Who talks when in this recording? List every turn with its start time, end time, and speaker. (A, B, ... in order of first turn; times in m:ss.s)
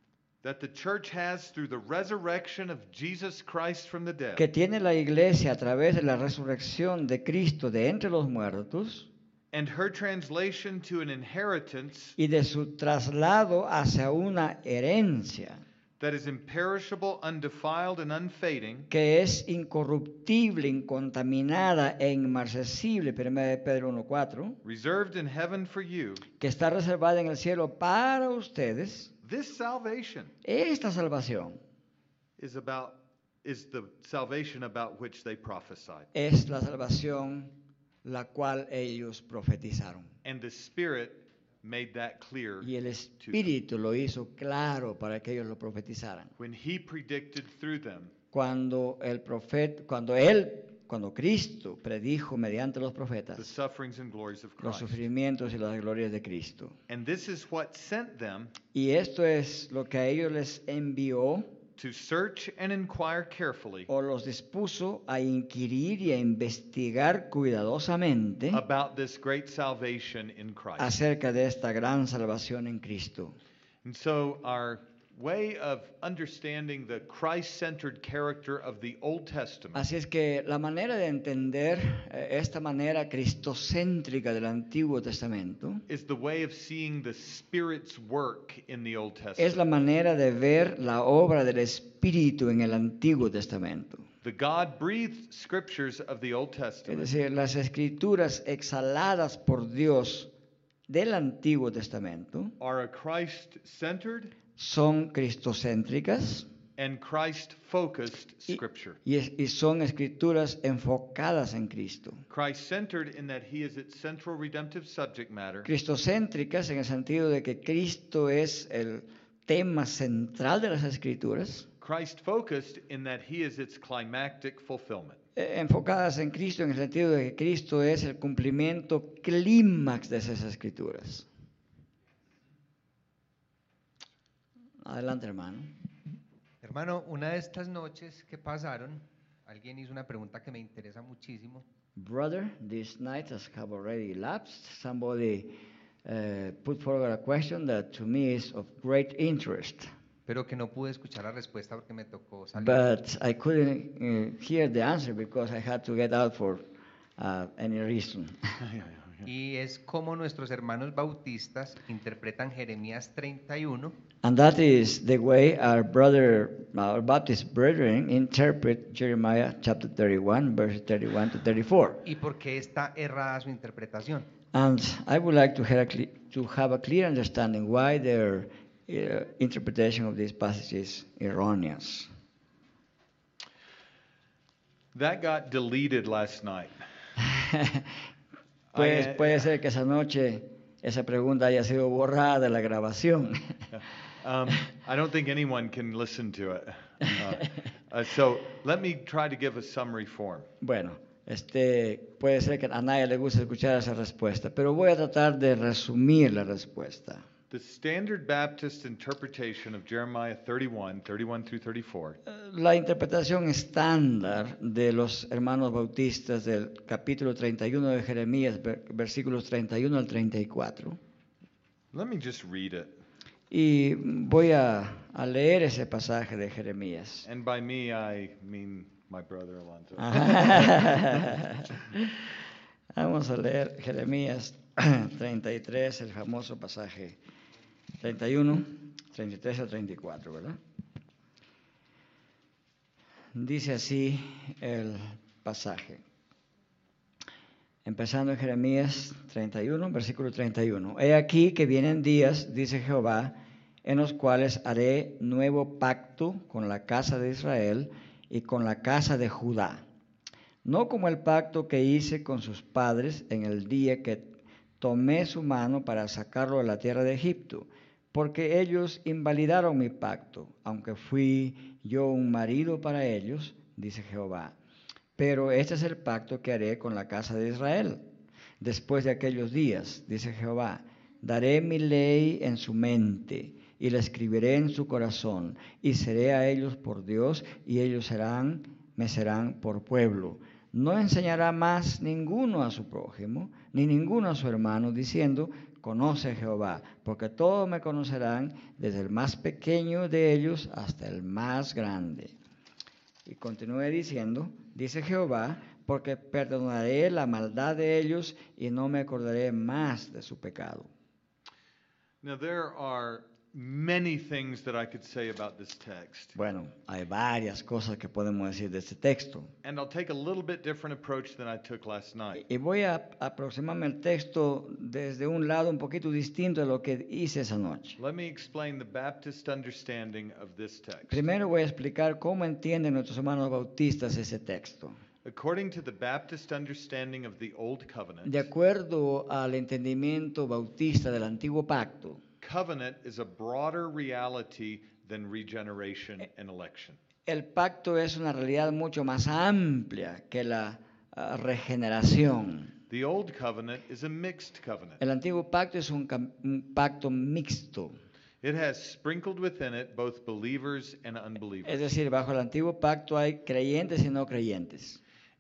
0:00.4-0:04.5 A
0:04.4-0:09.1 B
0:09.5-0:12.2 A
0:12.2-0:15.6 B
0:16.0-0:18.9 A
0:18.9-0:24.6 B
0:24.6-0:26.2 A
0:26.4-0:29.1 B
0:29.2-0:30.3 A
0:30.4-0:31.6 B
0:32.4-0:36.1 A
0:36.1-0:37.5 B
0:38.0-0:40.1 B
0:40.2-0:42.7 A
0:42.6-0:46.3 B
0:43.2-0:43.5 A
0:46.4-0:48.1 A
0:48.3-0:53.5 B
0:53.4-0:55.1 A
0:54.6-0:56.8 B
0:56.9-0:58.6 A
0:58.7-1:01.5 B
1:01.8-1:03.9 A
1:03.9-1:08.6 B
1:08.5-1:11.0 A
1:10.8-1:13.4 B
1:13.8-1:19.9 A
1:19.8-1:25.8 B
1:25.9-1:29.6 A
1:29.4-1:34.0 B
1:34.2-1:37.1 A
1:36.9-1:40.3 B
1:40.9-1:42.5 B
1:42.6-1:44.3 A
1:44.6-1:46.5 B
1:46.8-1:49.0 A
1:48.5-1:52.2 B
1:52.3-1:55.7 A
1:55.6-2:01.7 B
2:01.8-2:05.2 A
2:05.4-2:11.3 B
2:14.8-2:15.7 B
2:16.6-2:21.6 C
2:22.0-2:25.5 B
2:26.0-2:29.9 B
2:30.3-2:32.9 C
2:32.6-2:36.6 B
2:37.2-2:38.4 B
2:38.6-2:39.2 A
2:39.2-2:43.9 C
2:44.2-2:52.0 B
2:52.0-2:54.3 C
2:54.5-3:02.1 B
3:04.9-3:06.8 A
3:07.2-3:07.9 B
3:08.7-3:09.5 A
3:08.8-3:13.5 B
3:13.7-3:20.5 A
3:20.6-3:27.2 B
3:27.5-3:32.2 A
3:32.3-3:41.0 B
3:41.9-3:43.0 A
3:43.5-3:47.3 B
3:47.2-3:51.4 A
3:50.0-3:52.2 B
3:52.9-3:57.2 B
3:58.0-4:00.6 B
4:03.4-4:06.0 B
4:07.8-4:19.8 B
4:20.6-4:24.3 B
4:24.8-4:34.6 B
4:35.2-4:38.0 B
4:38.6-5:02.4 B
5:03.3-5:10.9 B
5:12.2-5:16.4 A
5:16.4-5:19.5 B
5:19.6-5:22.4 A
5:22.4-5:28.0 B
5:28.0-5:31.2 A
5:31.1-5:35.0 B
5:35.2-5:38.5 A
5:38.2-5:42.2 B
5:42.4-5:47.0 A
5:47.3-5:52.7 B
5:52.9-5:55.0 A
5:55.0-5:58.0 B
5:58.4-6:01.9 A
6:01.6-6:05.0 B